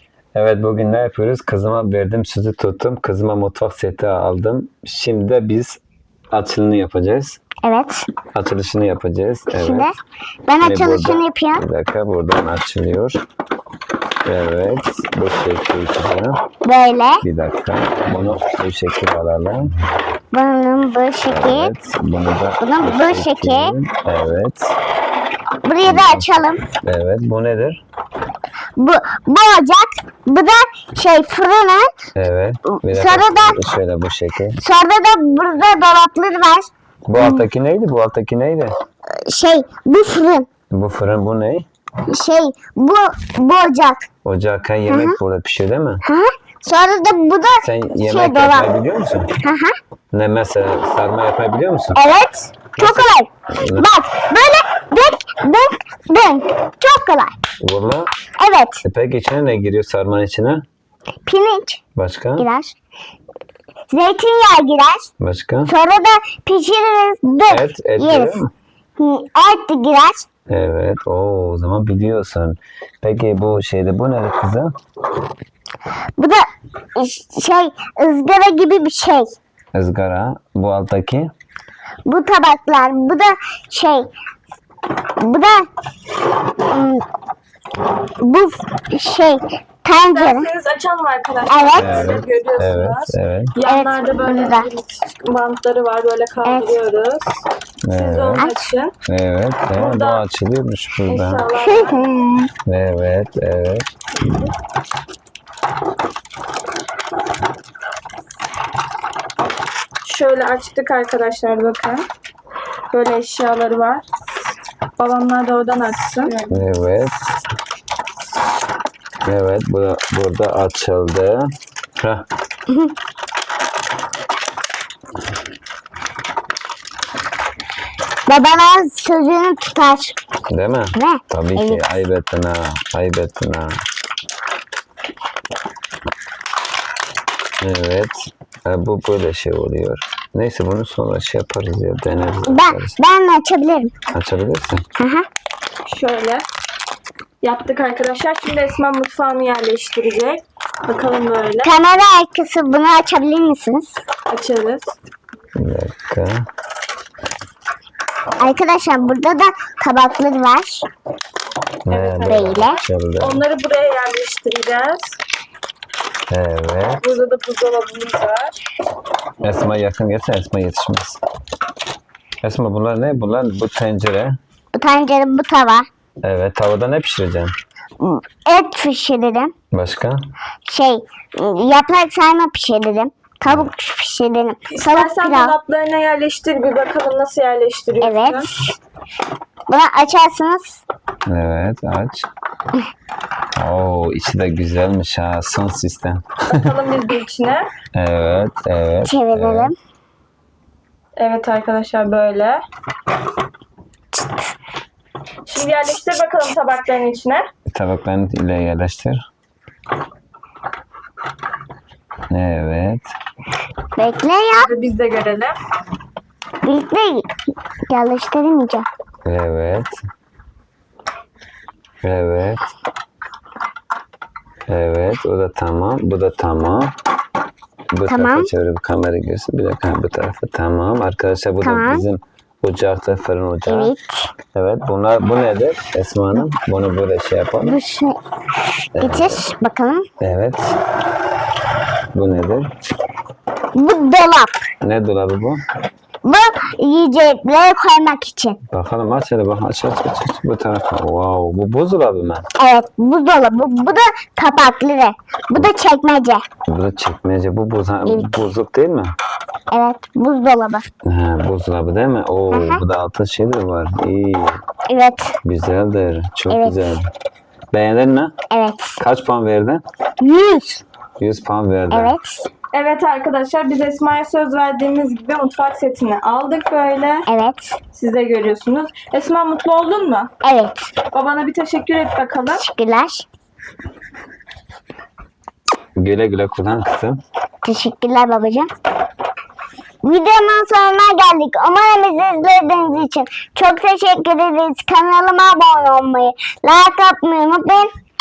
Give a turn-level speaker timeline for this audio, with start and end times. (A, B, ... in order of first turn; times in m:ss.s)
0:00.3-0:05.8 A
0:06.3-0:07.4 A
0:07.6-0:08.1 B
0:08.3-0:09.9 A
0:09.5-0:11.6 B
0:10.6-0:13.2 A
0:14.2-0:16.4 A
0:16.6-0:17.2 B
0:17.2-0:19.7 A
0:20.3-0:21.7 B
0:21.3-0:24.7 A
0:22.6-0:23.7 B
0:25.6-0:26.6 B
0:25.8-0:27.8 A
0:28.8-0:31.9 B
0:32.2-0:34.6 A
0:32.7-0:33.6 B
0:34.6-0:37.4 B
0:37.1-0:38.8 A
0:39.1-0:40.5 B
0:40.7-0:41.7 A
0:42.1-0:44.1 B
0:44.2-0:46.0 A
0:44.9-0:45.2 B
0:46.0-0:48.7 B
0:47.6-0:49.3 A
0:49.4-0:49.8 B
0:50.1-0:52.0 A
0:52.0-0:57.3 B
0:52.8-0:53.9 A
0:57.6-0:58.1 A
0:58.4-0:58.8 B
0:58.8-1:00.7 A
1:01.2-1:01.8 B
1:02.0-1:02.5 A
1:02.4-1:02.8 B
1:03.9-1:05.1 B
1:05.2-1:05.7 A
1:05.7-1:08.4 B
1:07.5-1:08.5 A
1:09.0-1:10.3 B
1:10.5-1:14.7 A
1:16.2-1:19.3 B
1:19.7-1:21.3 A
1:22.1-1:24.1 B
1:25.2-1:25.7 B
1:26.7-1:27.0 B
1:28.2-1:30.5 B
1:30.1-1:37.4 C
1:31.5-1:32.1 B
1:31.7-1:33.6 A
1:33.6-1:34.7 B
1:36.4-1:36.8 B
1:37.8-1:38.5 A
1:37.9-1:38.9 C
1:38.4-1:38.6 B
1:39.1-1:41.5 A
1:39.8-1:40.3 C
1:41.0-1:42.0 C
1:41.6-1:42.5 B
1:42.7-1:43.9 A
1:50.0-1:52.0 C
1:52.9-1:54.1 C
1:55.0-1:56.7 C
1:56.5-1:57.2 A
1:59.2-2:02.3 A
2:08.3-2:10.2 B
2:10.5-2:13.8 A
2:10.9-2:12.0 B
2:17.6-2:23.0 A
2:22.5-2:23.9 B
2:24.1-2:24.8 A
2:25.0-2:25.3 B
2:25.9-2:26.5 C
2:27.4-2:31.7 C
2:31.6-2:34.0 B
2:34.3-2:34.9 C
2:35.6-2:36.5 A
2:38.4-2:40.8 B
2:41.9-2:43.4 A
2:41.9-2:45.2 C
2:42.2-2:42.8 B
2:46.3-2:47.1 A
2:47.0-2:48.6 C
2:49.4-2:51.2 A
2:52.4-2:54.4 A
2:54.7-2:55.9 B
2:56.2-2:57.5 A
2:58.0-2:59.5 B
2:59.7-3:00.2 A
3:00.7-3:05.6 B
3:04.7-3:08.5 C
3:08.0-3:08.7 B
3:09.7-3:10.8 B
3:11.3-3:12.3 A
3:13.6-3:16.7 A
3:16.5-3:17.7 C
3:17.9-3:19.7 A
3:19.0-3:19.8 B
3:21.2-3:22.6 C
3:24.1-3:24.4 B
3:25.5-3:27.5 C
3:27.7-3:29.2 A
3:32.3-3:33.1 A
3:34.0-3:34.7 B
3:34.6-3:35.6 C
3:36.6-3:37.3 B
3:37.9-3:38.9 B
3:39.2-3:40.0 A
3:42.0-3:42.6 A
3:44.7-3:46.9 A
3:47.9-3:53.9 A
3:48.1-3:48.5 B
3:51.6-3:52.0 B
3:53.7-3:54.3 B
3:54.6-3:57.8 A
3:57.6-3:58.2 B
3:59.0-3:59.4 A
3:59.0-4:00.1 B
4:00.2-4:00.6 A
4:02.1-4:02.7 A
4:03.8-4:04.6 B
4:04.8-4:05.6 A
4:06.2-4:08.6 B
4:08.7-4:12.5 A
4:12.6-4:16.4 B
4:16.7-4:19.1 A
4:18.0-4:18.3 B
4:19.7-4:20.9 B
4:21.0-4:24.6 A
4:22.5-4:22.8 B
4:24.9-4:25.4 B
4:25.4-4:27.1 A
4:26.5-4:27.0 B
4:27.7-4:28.4 A
4:28.5-4:29.0 B
4:29.0-4:29.8 A
4:30.2-4:30.8 B
4:31.2-4:32.2 A
4:31.9-4:32.5 B
4:32.7-4:37.3 C
4:37.3-4:37.8 B
4:37.9-4:40.3 C
4:40.4-4:40.9 B
4:41.1-4:42.6 C
4:42.5-4:43.3 B
4:46.0-4:47.2 A
4:47.6-4:48.7 B
4:50.0-4:57.9 B